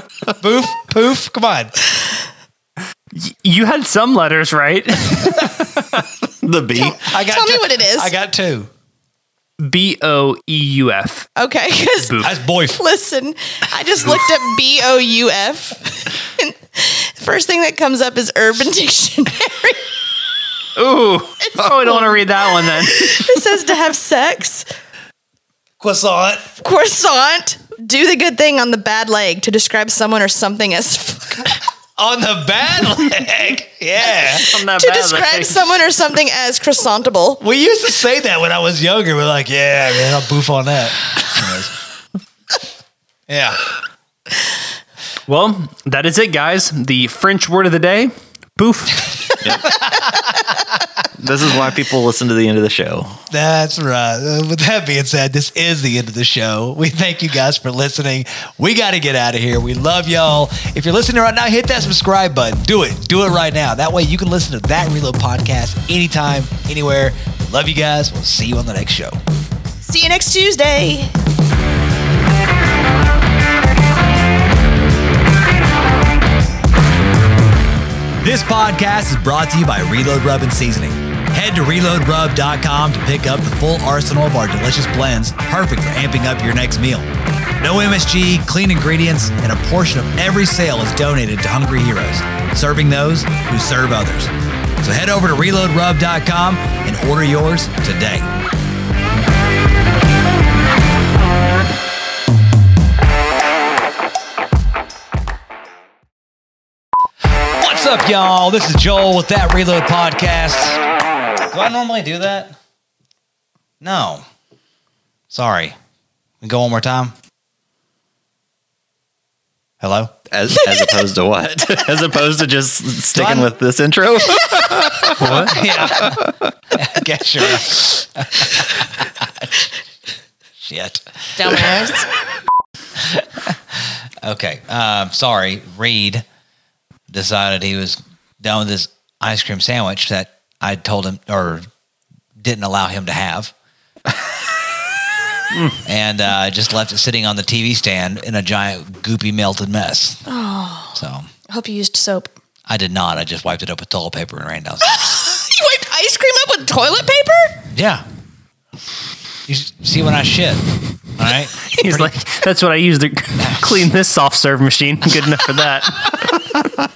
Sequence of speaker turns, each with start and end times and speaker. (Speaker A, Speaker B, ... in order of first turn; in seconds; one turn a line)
Speaker A: 0.3-1.7
Speaker B: 3.1-5.8
Speaker C: 6.4-7.0
Speaker D: 6.8-8.1
Speaker A: 7.0-8.7
Speaker B: 9.6-11.3
Speaker D: 11.4-19.9
Speaker B: 12.0-12.3
Speaker A: 12.2-12.8
Speaker B: 20.8-23.4
Speaker D: 21.4-24.6
Speaker A: 25.8-26.6
Speaker D: 26.6-31.5
Speaker A: 32.0-34.5
Speaker B: 34.3-35.6
Speaker D: 34.5-37.4
Speaker A: 37.4-41.7
Speaker A: 43.3-43.6
Speaker B: 45.3-49.4
Speaker C: 49.4-49.7
Speaker A: 49.7-50.2
Speaker C: 51.2-53.2
Speaker A: 53.3-69.2
Speaker D: 69.8-71.1
Speaker A: 78.2-87.1
Speaker A: 87.6-98.3
Speaker A: 107.5-110.8
Speaker A: 111.5-112.5
Speaker A: 113.8-114.2
Speaker A: 115.3-115.8
Speaker A: 116.4-117.1
Speaker A: 119.8-120.1
Speaker C: 120.3-125.4
Speaker A: 123.1-123.5
Speaker B: 125.2-125.6
Speaker A: 125.3-126.2
Speaker C: 126.0-126.3
Speaker A: 126.7-129.5
Speaker A: 130.6-131.8
Speaker D: 131.4-132.0
Speaker A: 133.0-133.6
Speaker A: 134.2-136.2
Speaker A: 137.1-141.7
Speaker A: 142.4-143.5
Speaker A: 145.8-150.2
Speaker D: 150.2-151.0
Speaker A: 150.9-151.3
Speaker D: 151.5-152.3
Speaker A: 152.7-155.0
Speaker D: 154.8-157.6
Speaker A: 157.7-158.0
Speaker A: 159.5-162.1
Speaker B: 161.7-166.4